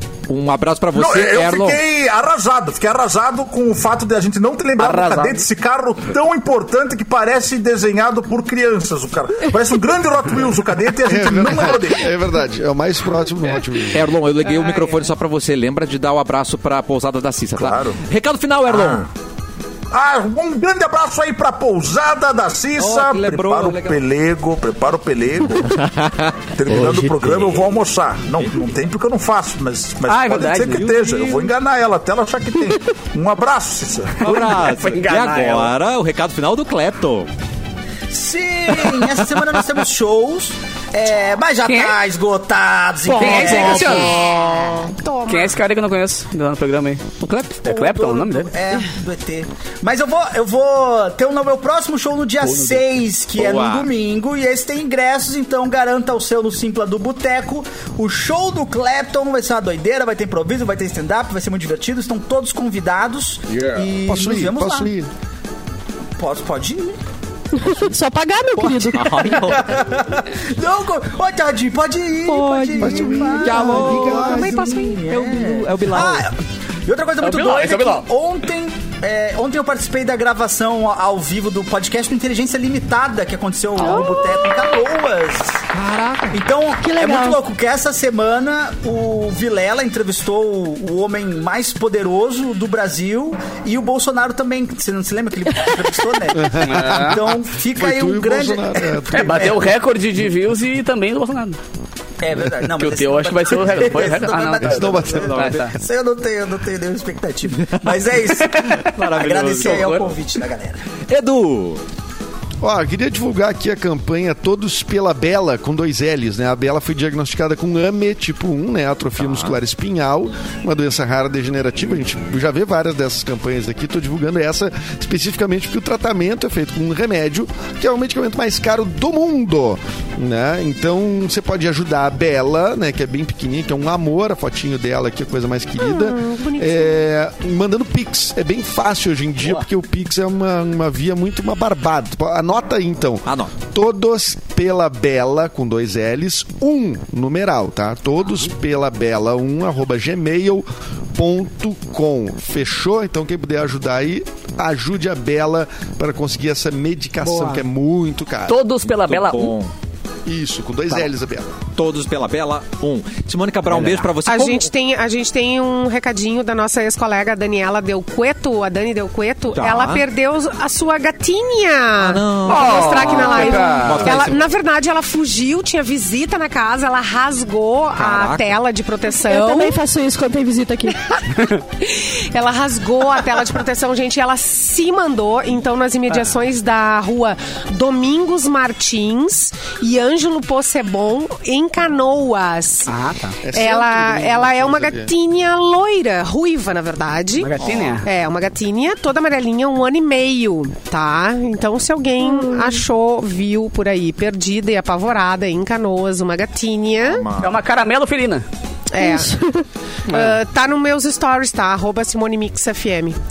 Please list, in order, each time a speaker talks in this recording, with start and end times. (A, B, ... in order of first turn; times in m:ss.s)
0:00.3-0:01.8 A
0:00.9-0:12.1 B
0:04.8-0:05.4 C
0:11.0-0:14.0 D
0:13.9-0:19.1 A
0:14.4-0:15.0 E
0:17.6-0:18.0 B
0:18.7-0:19.1 B
0:19.9-0:25.8 B
0:22.8-0:24.0 A
0:25.6-0:27.6 A
0:26.5-0:34.7 B
0:30.1-0:30.8 C
0:30.6-0:31.5 A
0:34.2-0:37.3 A
0:34.6-0:35.7 C
0:38.1-0:44.3 F
0:41.6-0:41.9 C
0:43.1-0:44.2 C
0:43.1-0:45.6 E
0:45.3-0:48.5 C
0:47.6-1:04.9 F
0:52.4-0:52.8 C
0:53.3-0:53.9 A
1:04.0-1:05.1 D
1:06.2-1:07.0 F
1:07.6-1:09.4 G
1:07.6-1:07.9 F
1:08.5-1:25.6 F
1:08.9-1:09.8 A
1:12.2-1:16.3 A
1:12.8-1:14.8 D
1:14.2-1:15.0 E
1:17.2-1:18.0 C
1:25.7-1:26.4 A
1:26.3-1:39.7 F
1:26.8-1:27.4 G
1:36.3-1:39.6 D
1:36.6-1:37.2 C
1:39.1-1:41.6 C
1:42.2-1:50.9 F
1:42.7-1:45.7 C
1:44.6-1:45.5 D
1:45.2-1:45.7 A
1:47.6-1:47.9 A
1:48.4-1:48.8 C
1:48.8-1:50.0 A
1:49.4-1:50.1 C
1:51.1-1:51.8 A
1:52.6-2:38.6 D
1:59.2-1:59.6 A
2:15.8-2:17.1 E
2:23.3-2:23.5 A
2:37.2-2:37.6 E
2:38.5-2:39.6 C
2:38.9-2:39.7 A
2:40.3-2:41.6 D
2:41.8-2:44.7 A
2:43.7-2:44.1 C
2:44.2-2:59.8 E
2:49.5-2:50.0 A
2:52.0-2:54.4 A
2:52.4-2:54.3 C
2:58.0-2:58.6 A
2:59.3-3:01.0 G
3:01.8-3:12.9 E
3:06.1-3:06.4 C
3:12.9-3:13.4 C
3:13.4-3:15.1 D
3:13.5-3:27.3 E
3:17.4-3:18.1 C
3:17.6-3:18.0 A
3:22.2-3:22.8 G
3:27.0-3:27.6 A
3:27.4-3:28.4 C
3:28.9-3:29.4 E
3:29.0-3:29.6 G
3:30.1-3:30.4 C
3:30.1-3:33.2 E